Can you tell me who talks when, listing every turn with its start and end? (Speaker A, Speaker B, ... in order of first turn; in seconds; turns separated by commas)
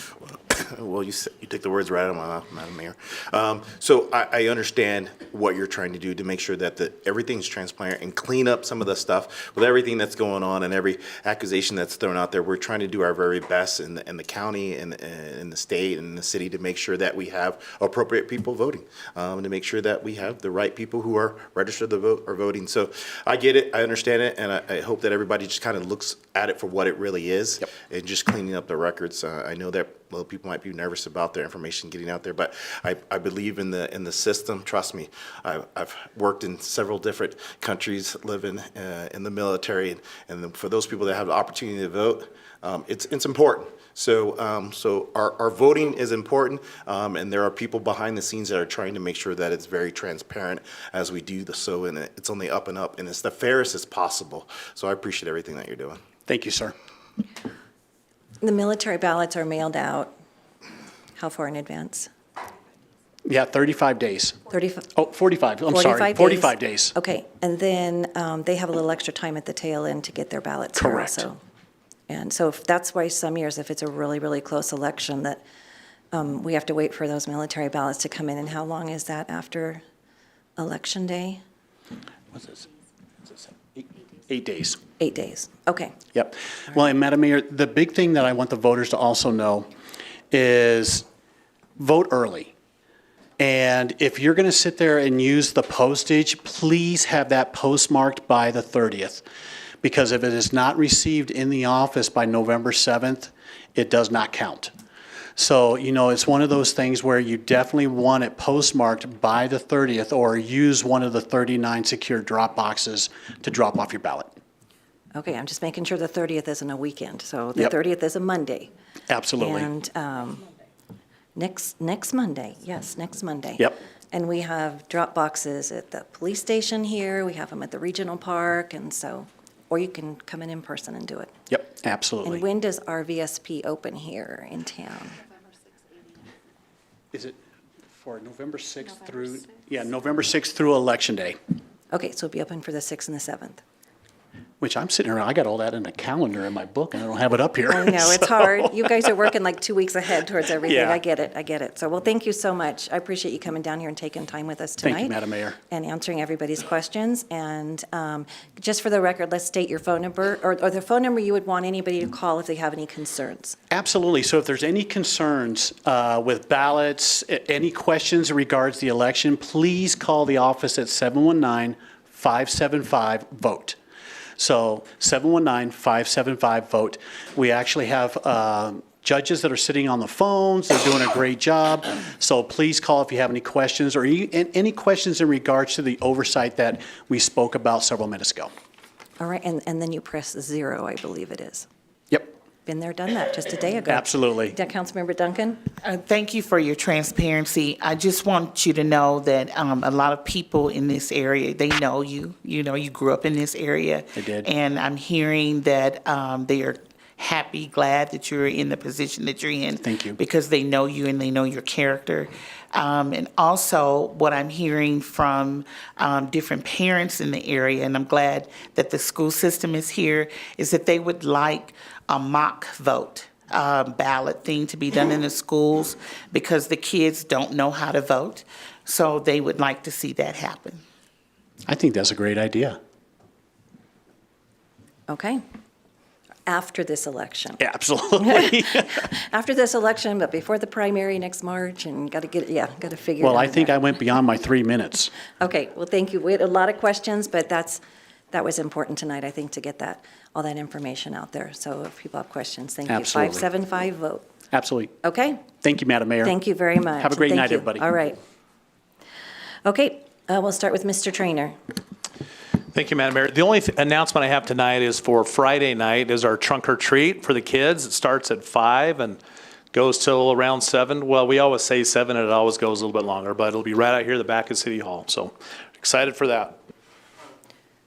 Speaker A: 0.2-56.0, Speaker B: 56.3-56.7, Speaker C: 58.4-60.1, Speaker C: 61.1-62.1, Speaker B: 63.2-64.4, Speaker C: 64.5-64.9, Speaker B: 64.9-66.9, Speaker C: 65.7-71.4, Speaker B: 70.7-71.3, Speaker C: 72.1-75.4, Speaker C: 76.1-79.8, Speaker C: 80.6-81.4, Speaker B: 82.3-82.7, Speaker B: 83.2-84.8, Speaker C: 85.0-86.0, Speaker B: 86.1-89.7, Speaker B: 90.3-91.1, Speaker B: 91.8-92.5, Speaker B: 93.4-99.2, Speaker B: 99.8-104.7, Speaker B: 105.3-114.3, Speaker C: 115.1-118.7, Speaker B: 119.1-119.7, Speaker C: 119.4-120.4, Speaker C: 121.3-131.4, Speaker B: 131.5-132.4, Speaker C: 132.2-135.2, Speaker B: 137.1-137.4, Speaker B: 137.9-141.4, Speaker C: 141.9-143.6, Speaker B: 144.6-149.1, Speaker C: 147.7-155.2, Speaker B: 150.6-151.0, Speaker B: 154.8-155.6, Speaker C: 155.7-163.6, Speaker B: 163.7-173.8, Speaker B: 174.4-188.5, Speaker C: 189.2-191.7, Speaker C: 192.6-195.7, Speaker B: 193.9-194.6, Speaker D: 195.8-230.8, Speaker B: 204.1-204.5, Speaker B: 231.7-232.8, Speaker C: 235.1-235.4, Speaker C: 236.5-243.8, Speaker B: 237.6-238.9, Speaker B: 243.2-245.1, Speaker C: 245.4-247.8, Speaker C: 248.3-254.3, Speaker B: 252.8-253.5, Speaker B: 254.5-254.9, Speaker C: 255.0-255.5, Speaker B: 255.6-256.4, Speaker C: 256.2-258.2, Speaker B: 257.0-257.9, Speaker C: 259.6-261.6, Speaker E: 262.7-269.2, Speaker E: 269.7-276.6